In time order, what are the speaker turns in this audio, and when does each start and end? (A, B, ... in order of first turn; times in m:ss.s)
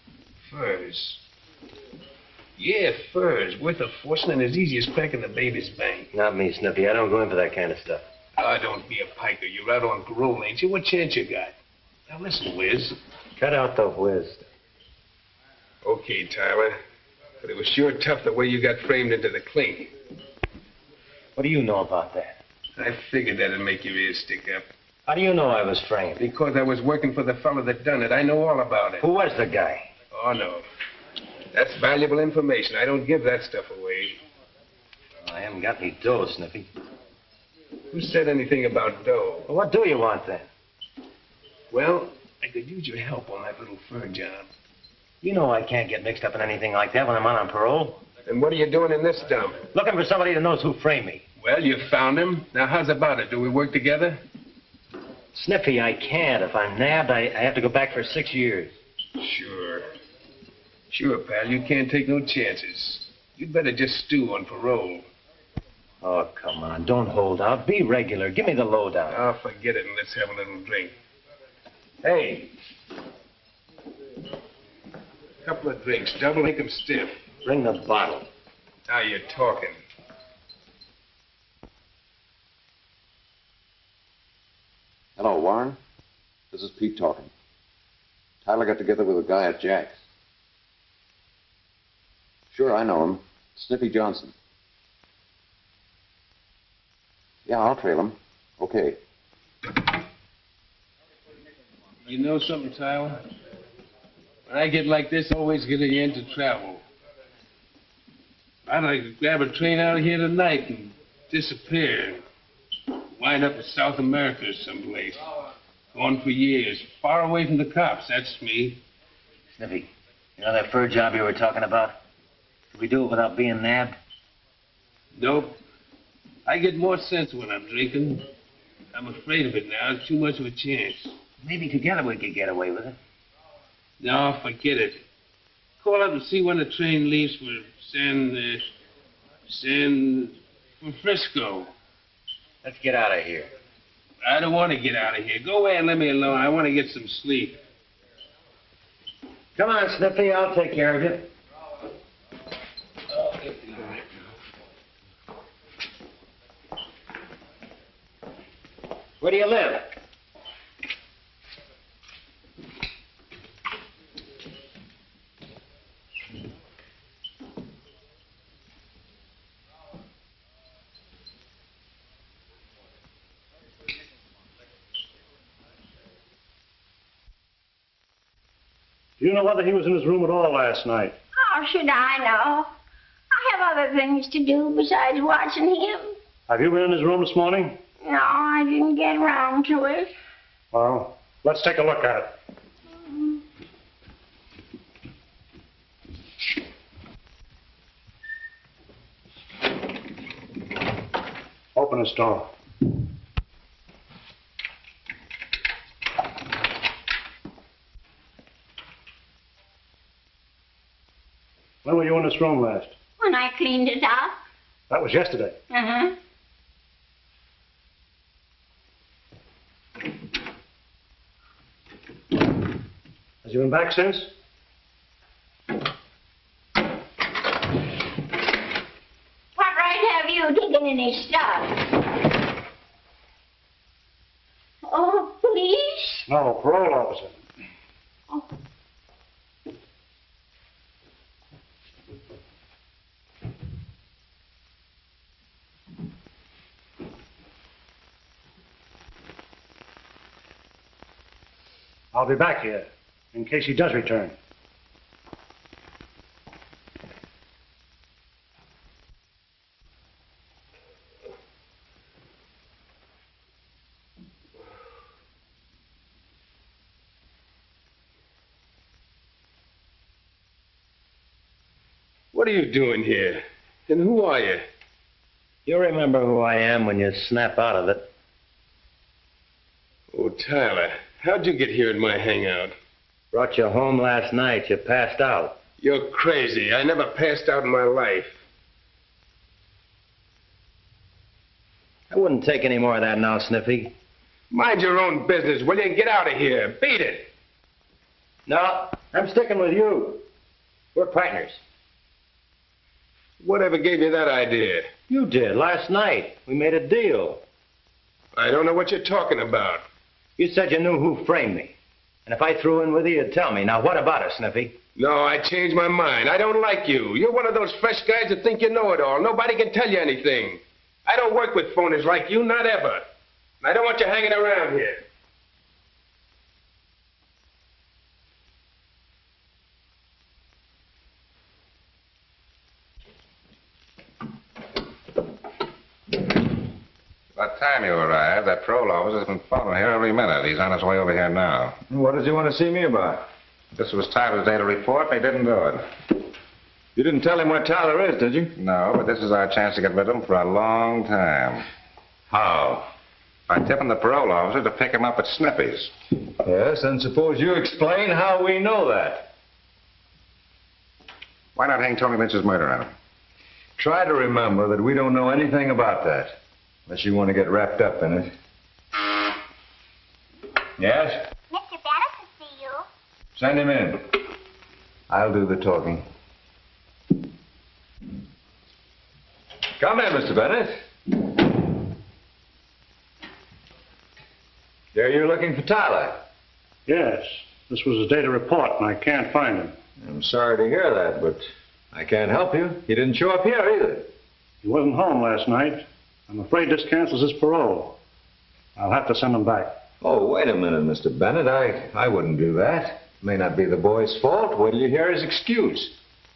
0:00.4-0:01.2 A
0:02.6-0:06.1 A
0:06.1-0:08.1 B
0:08.4-0:11.5 A
0:12.1-0:13.0 A
0:13.4-0:14.4 B
0:15.8-0:16.8 A
0:17.4-0:19.9 A
0:21.4-0:22.4 B
0:22.8-0:24.6 A
0:25.0-0:26.3 B
0:26.2-0:29.0 A
0:29.0-0:29.9 B
0:30.1-0:30.6 A
0:31.5-0:34.2 A
0:35.2-0:36.7 B
0:37.9-0:39.4 A
0:39.4-0:40.5 B
0:41.7-0:44.5 A
0:45.2-0:48.0 B
0:48.2-0:49.6 A
0:49.7-0:51.2 B
0:51.4-0:54.2 A
0:55.3-0:58.8 B
0:59.2-0:59.9 A
1:00.9-1:05.1 A
1:06.0-1:09.2 B
1:09.1-1:10.9 A
1:12.0-1:12.5 A
1:15.4-1:17.2 A
1:17.4-1:18.3 B
1:18.9-1:19.8 A
1:25.2-1:25.8 C
1:26.5-1:27.3 C
1:28.4-1:30.0 C
1:32.5-1:34.3 C
1:37.4-1:39.0 C
1:42.0-1:43.2 A
1:44.5-1:46.8 A
1:48.6-1:52.2 A
1:53.1-1:55.2 A
1:55.9-1:58.8 A
1:59.6-2:02.0 B
2:02.7-2:04.0 B
2:05.1-2:05.6 A
2:06.4-2:08.3 A
2:08.9-2:11.1 A
2:11.4-2:13.0 B
2:14.0-2:15.0 A
2:15.8-2:18.6 A
2:19.5-2:21.7 A
2:22.6-2:23.5 B
2:24.2-2:27.6 A
2:29.6-2:31.3 B
2:39.2-2:39.9 B
2:59.2-3:01.2 D
3:01.3-3:02.7 E
3:03.3-3:06.2 E
3:06.5-3:07.8 D
3:08.0-3:10.1 E
3:10.7-3:12.3 D
3:21.7-3:22.5 D
3:31.8-3:32.9 D
3:33.2-3:34.4 E
3:34.9-3:35.6 D
3:35.7-3:36.2 E
3:43.4-3:44.3 D
3:49.5-3:51.9 E
3:54.8-3:56.3 E
3:56.3-3:57.4 D
4:12.1-4:14.4 D
4:32.3-4:34.6 A
4:35.6-4:38.1 B
4:40.1-4:42.7 A
4:43.3-4:45.6 B
4:45.8-4:48.4 A
4:52.1-4:53.9 B
4:54.5-4:57.3 A
4:58.4-5:00.2 B
5:00.9-5:01.6 B
5:03.4-5:04.9 A
5:05.1-5:07.4 B
5:08.3-5:09.8 A
5:10.4-5:11.7 B
5:12.2-5:14.8 B
5:15.0-5:23.1 A
5:23.6-5:25.0 A
5:37.4-5:41.8 F
5:41.9-5:43.3 G
5:43.7-5:45.8 F
5:46.9-5:48.5 G
5:48.6-5:51.7 F
5:52.3-5:52.9 G
5:53.5-5:55.9 F
5:56.4-5:59.3 G
6:01.5-6:02.9 F
6:03.8-6:08.3 G
6:10.8-6:11.3 G
6:11.5-6:12.8 E
6:13.4-6:14.2 G
6:15.1-6:16.0 G
6:19.8-6:20.8 G
6:24.9-6:26.2 G
6:26.8-6:29.8 D
6:30.0-6:34.1 G
6:34.6-6:38.0 D
6:38.8-6:39.8 D
6:40.0-6:45.9 G